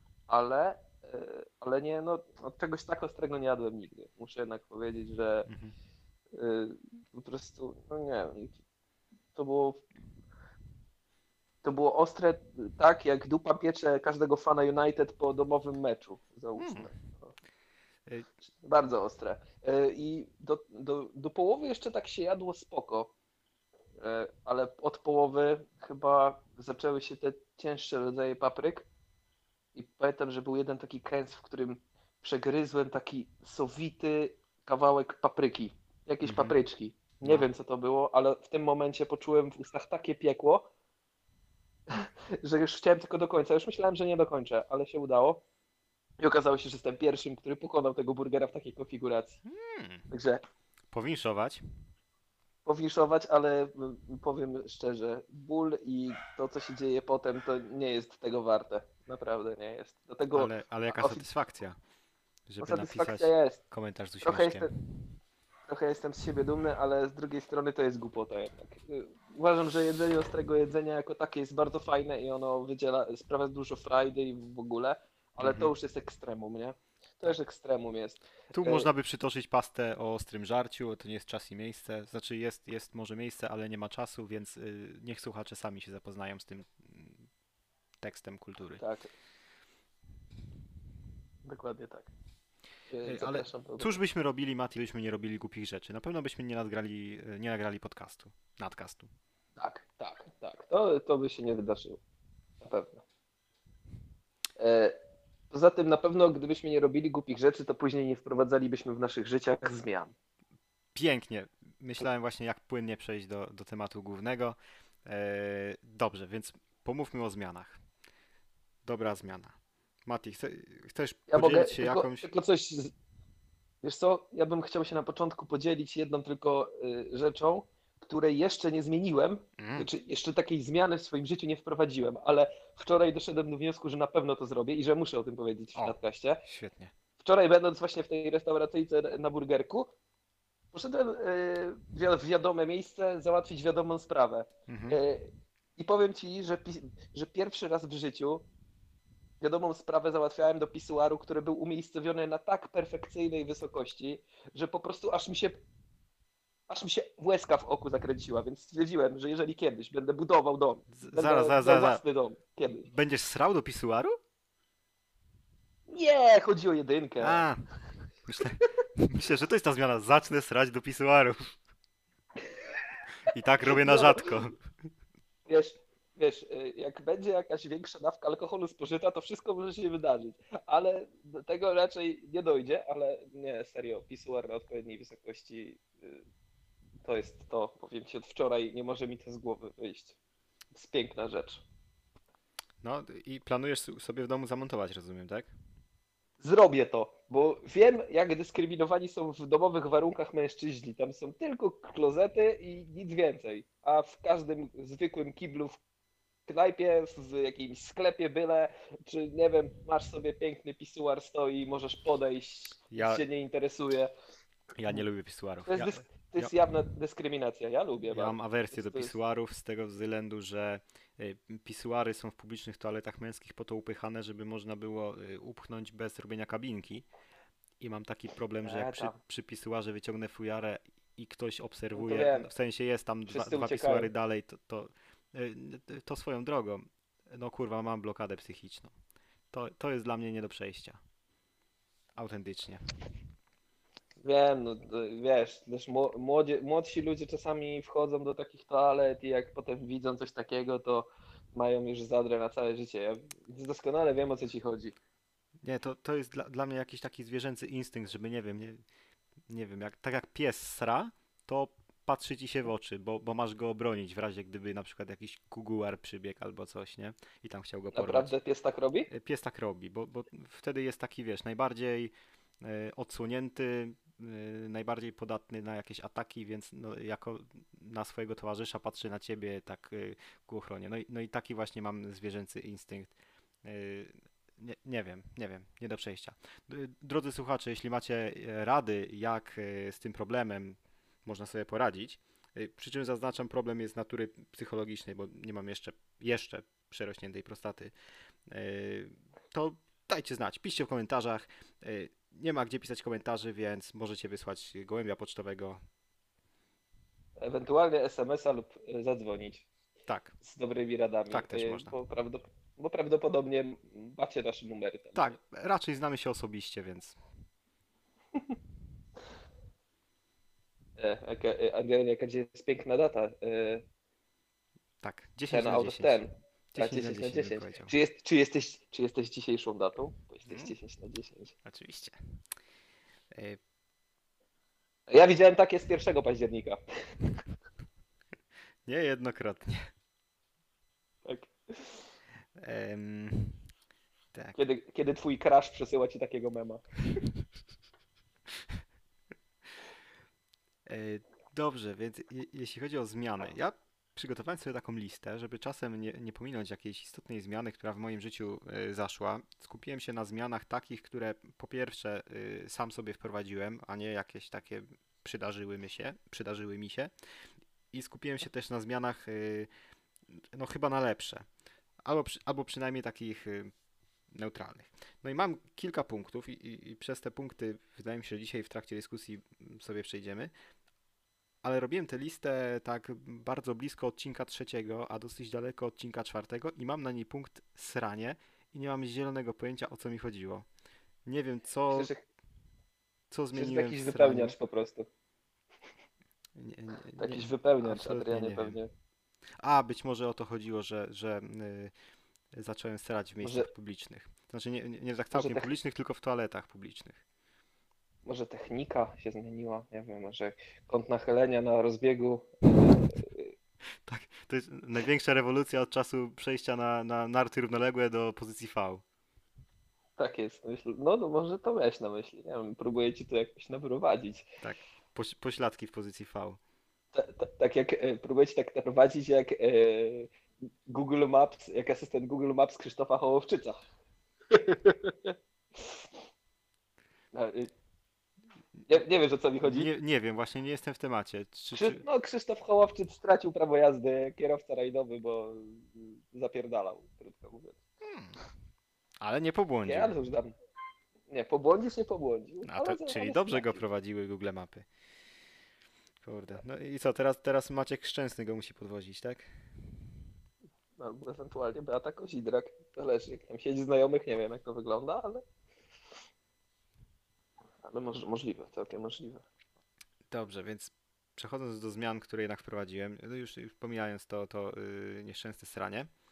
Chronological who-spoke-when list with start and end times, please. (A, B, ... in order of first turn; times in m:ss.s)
0:00.3-0:05.5 A
0:05.5-0:05.7 B
0:06.3-0:08.6 A
0:09.3-0:09.8 A
0:11.6-0:17.3 A
0:16.6-0:17.0 B
0:18.6-0:23.1 A
0:24.0-0:28.9 A
0:29.7-0:40.7 A
0:36.2-0:36.6 B
0:41.9-0:45.4 A
0:46.2-0:49.4 A
0:49.4-0:50.1 B
0:50.1-0:50.4 A
0:50.9-0:51.6 B
0:52.6-1:01.2 A
1:00.3-1:01.8 B
1:02.5-1:04.7 B
1:02.6-1:03.6 A
1:04.2-1:04.7 A
1:05.7-1:18.9 A
1:15.4-1:15.7 B
1:18.5-1:27.3 B
1:28.0-1:28.8 B
1:28.8-1:29.1 A
1:31.4-1:32.1 A
1:32.9-1:33.9 A
1:33.0-1:39.1 B
1:39.6-1:42.0 A
1:42.6-1:43.0 A
1:44.6-1:45.0 A
1:45.5-1:50.1 A
1:50.9-1:57.8 B
1:58.8-1:59.5 B
2:00.0-2:02.3 B
2:01.3-2:02.9 A
2:03.8-2:16.4 A
2:09.6-2:09.9 B
2:15.8-2:16.9 B
2:17.2-2:19.9 A
2:20.7-2:28.4 A
2:24.7-2:25.0 B
2:29.4-2:35.6 A
2:36.7-2:42.9 A
2:40.9-2:42.0 B
2:42.8-2:44.1 B
2:45.9-2:47.5 A
2:47.2-2:47.6 B
2:48.2-2:51.6 B
2:53.2-2:54.6 B
2:53.6-2:54.3 A
2:55.5-3:06.2 A
3:07.0-3:10.2 A
3:10.7-3:11.6 A
3:12.8-3:15.5 B
3:16.4-3:25.8 A
3:26.5-3:34.1 A
3:32.9-3:33.2 B
3:34.8-3:36.5 B
3:35.7-3:39.1 A
3:38.1-3:47.0 B
3:47.8-3:58.9 B
3:48.6-3:49.1 A
3:51.9-3:52.5 A
3:53.3-3:54.1 A
3:59.5-4:01.0 B
4:02.2-4:02.8 B
4:04.2-4:14.9 A
4:15.6-4:18.8 B
4:19.5-4:28.3 B
4:27.9-4:29.1 A
4:29.1-4:57.9 B
4:58.5-5:05.8 B
5:07.4-5:09.7 A
5:10.1-5:10.3 B
5:10.4-5:15.4 A
5:11.3-5:11.9 B
5:15.2-5:17.2 B
5:21.0-5:23.8 A
5:25.0-5:27.9 B
5:25.5-5:31.5 A
5:30.5-5:30.7 B
5:31.6-5:32.2 B
5:33.3-5:33.6 B
5:35.1-5:36.8 A
5:38.8-5:39.9 B
5:41.2-5:42.0 A
5:42.6-5:43.6 B
5:44.6-5:46.8 A
5:48.5-5:48.8 B
5:50.8-6:07.1 B
6:07.9-6:09.7 B
6:10.3-6:11.4 B
6:12.0-6:13.7 B
6:14.3-6:20.5 B
6:21.6-6:30.7 B
6:31.2-6:32.1 B
6:31.9-6:32.2 A
6:33.3-6:34.5 B
6:33.5-6:35.1 A
6:36.6-6:38.8 B
6:37.2-6:38.9 A
6:39.6-6:41.9 B
6:42.5-6:47.2 B
6:43.4-6:43.7 A
6:45.3-6:45.7 A
6:48.2-6:53.5 A
6:54.0-6:59.0 B
7:00.2-7:04.5 A
7:04.6-7:06.6 B
7:07.1-7:10.3 A
7:10.9-7:13.8 A
7:14.5-7:16.0 A
7:17.3-7:17.7 A
7:18.9-7:19.9 A
7:19.6-7:22.0 B
7:21.7-7:27.8 A
7:28.0-7:28.4 B
7:29.2-7:30.1 B
7:29.8-7:30.5 A
7:31.3-7:33.8 A
7:32.6-7:34.9 B
7:36.2-7:40.0 B
7:41.0-7:45.4 A
7:47.8-7:49.4 A
7:50.3-7:56.1 B